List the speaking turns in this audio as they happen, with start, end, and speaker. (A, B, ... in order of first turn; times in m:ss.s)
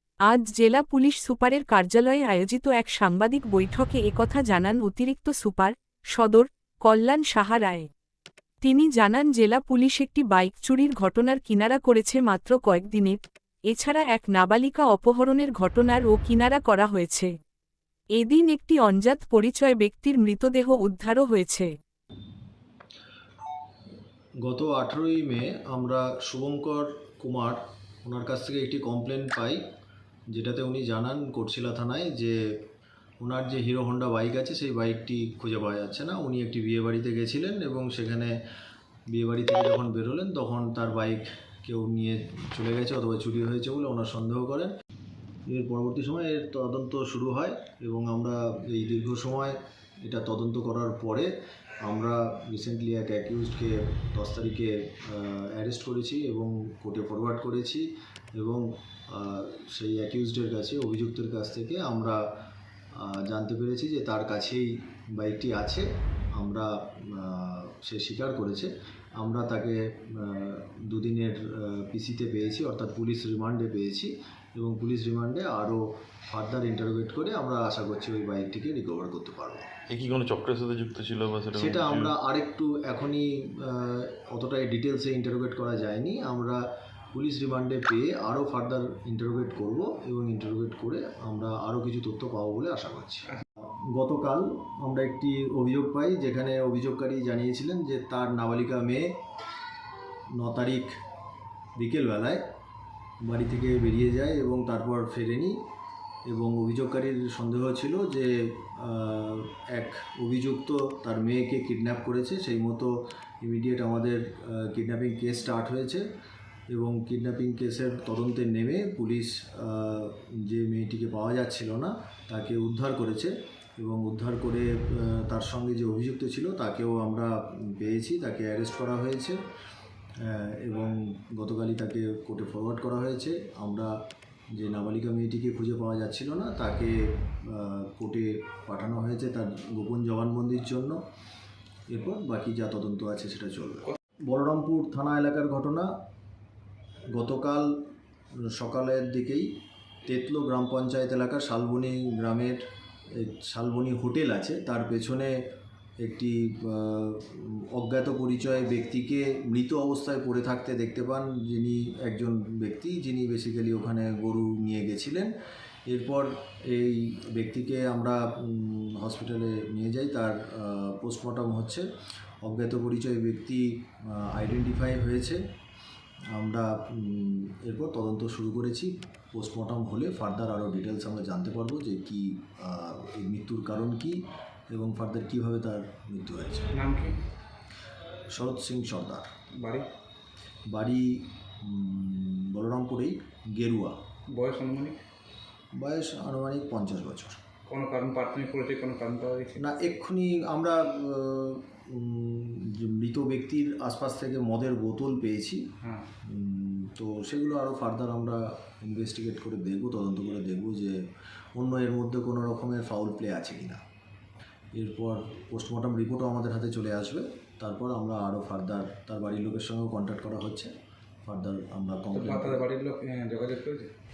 0:00.3-0:07.9 A
0:08.6-0:13.2 A
0:13.7-0:17.3 A
0:18.2-0:21.7 A
0:24.4-0:29.6 B
0:30.3-0:32.4 B
0:33.2-0:38.3 B
0:39.1-0:44.7 B
0:45.5-0:51.3 B
0:51.8-1:02.2 B
1:02.9-1:19.7 B
1:19.9-1:22.1 C
1:21.5-1:39.2 B
1:40.4-1:40.9 B
1:41.8-1:42.4 B
1:43.2-1:45.6 B
1:46.3-1:56.0 B
1:56.7-2:09.4 B
2:10.2-2:13.9 B
2:14.5-2:21.0 B
2:21.9-2:25.9 B
2:27.1-2:27.8 B
2:28.5-2:29.5 B
2:30.0-2:32.6 B
2:33.1-2:35.3 B
2:36.0-2:45.3 B
2:45.9-2:51.8 B
2:52.4-2:55.4 B
2:56.3-3:06.7 B
3:06.7-3:07.2 D
3:08.3-3:09.3 B
3:09.6-3:09.9 D
3:10.7-3:14.0 B
3:14.3-3:15.0 D
3:15.7-3:17.4 B
3:17.7-3:19.6 D
3:19.6-3:31.0 B
3:31.6-3:33.8 B
3:34.7-3:40.7 B
3:41.2-3:42.6 B
3:42.1-3:43.9 D